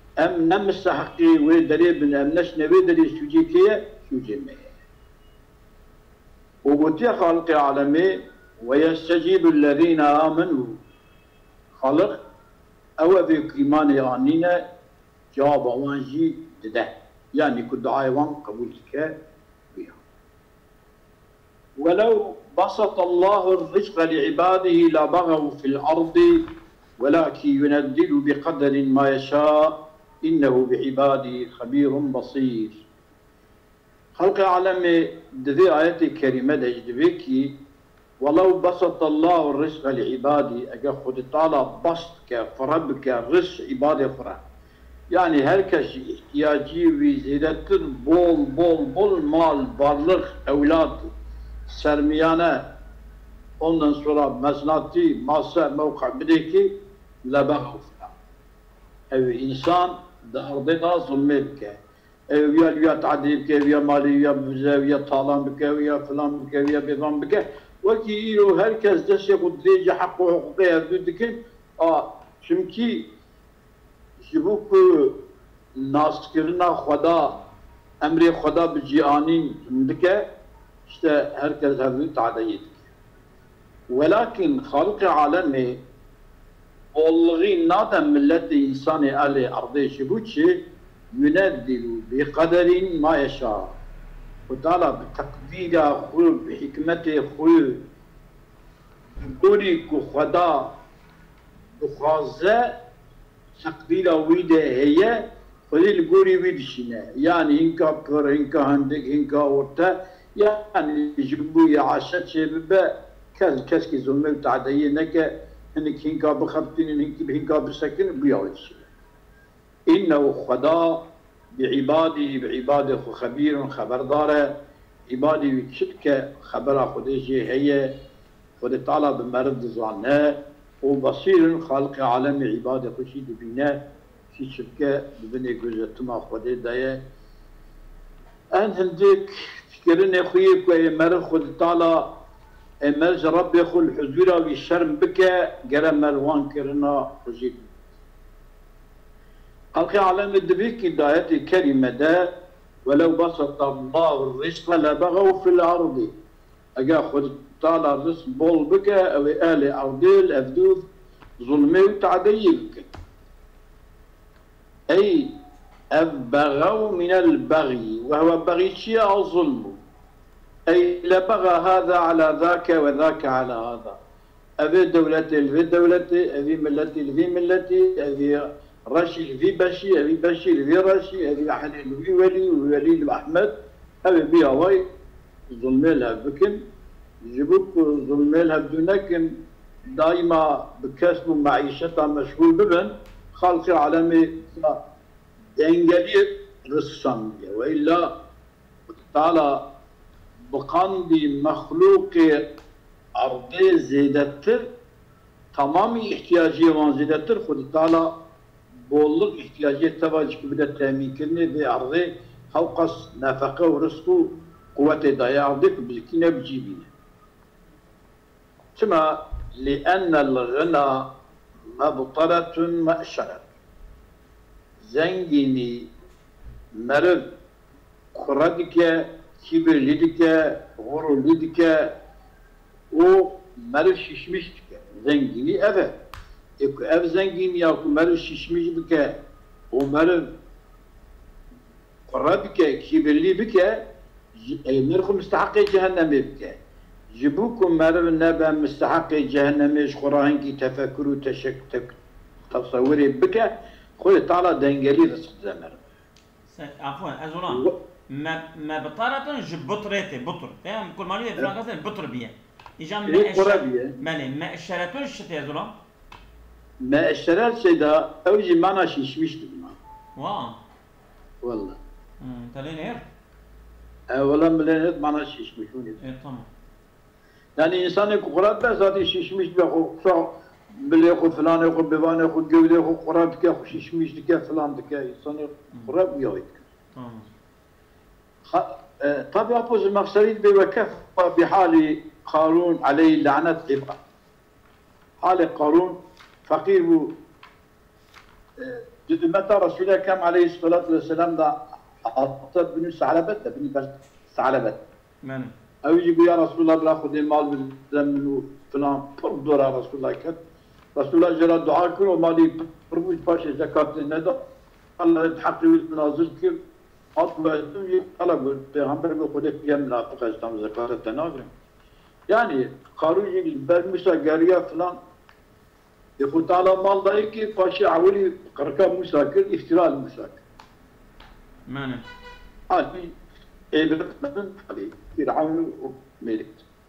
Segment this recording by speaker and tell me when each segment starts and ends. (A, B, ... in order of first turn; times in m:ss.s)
0:00.2-0:04.7 A
0:06.6-0:10.8 A
0:11.8-0:12.1 A
0:13.0-0:14.6 A
0:15.3-0:19.1 A
0:19.7-0:20.0 A
0:21.8-0:26.4 A
0:27.0-0:32.8 A
0:34.2-0:37.5 A
0:38.2-0:44.4 A
0:45.1-0:51.1 A
0:51.7-0:52.6 A
0:53.6-0:56.7 A
0:57.3-0:58.1 A
0:59.1-1:01.8 A
1:02.3-1:13.1 A
1:14.2-1:15.1 A
1:15.8-1:17.3 A
1:18.0-1:20.2 A
1:20.9-1:22.8 A
1:23.9-1:25.8 A
1:26.9-1:30.6 A
1:31.2-1:33.8 A
1:34.5-1:37.8 A
1:39.2-1:40.7 A
1:41.8-1:42.7 A
1:43.6-1:58.9 A
1:59.9-2:01.0 A
2:01.5-2:04.5 A
2:05.1-2:07.9 A
2:08.6-2:13.8 A
2:14.3-2:17.0 A
2:18.5-2:22.1 A
2:22.8-2:27.6 A
2:29.8-2:32.3 A
2:32.9-2:36.1 A
2:36.8-2:40.8 A
2:41.4-2:42.9 A
2:44.9-2:45.3 A
2:45.9-2:49.8 A
2:50.7-2:54.0 A
2:54.6-3:03.5 A
3:04.0-3:04.8 A
3:05.5-3:06.6 A
3:07.2-3:09.4 A
3:10.0-3:14.8 A
3:15.6-3:18.1 A
3:19.0-3:19.6 A
3:20.5-3:22.4 A
3:23.2-3:24.7 A
3:25.5-3:28.1 A
3:28.9-3:36.9 A
3:38.8-3:41.1 A
3:41.8-3:43.4 A
3:44.8-3:45.9 A
3:46.7-3:47.3 A
3:48.1-3:51.9 A
3:52.9-3:55.9 A
3:56.6-3:59.1 A
3:59.7-4:00.3 A
4:02.1-4:03.8 A
4:04.4-4:06.6 A
4:07.1-4:12.0 A
4:12.5-4:15.8 A
4:16.5-4:25.7 B
4:23.1-4:24.0 A
4:26.8-4:29.8 A
4:30.2-4:30.6 B
4:31.4-4:31.8 A
4:32.2-4:33.1 B
4:34.1-4:36.0 A
4:36.0-4:36.5 B
4:37.6-4:40.3 A
4:40.8-4:46.6 A
4:47.0-4:47.3 B
4:48.5-4:54.0 A
4:55.2-4:57.1 A
4:58.6-5:04.8 A
5:05.2-5:05.5 B
5:05.8-5:10.4 A
5:11.0-5:14.4 A
5:15.0-5:16.6 A
5:17.2-5:21.5 A
5:22.3-5:25.0 A
5:26.2-5:30.4 A
5:31.7-5:32.0 B
5:32.7-5:33.1 A
5:33.7-5:36.7 A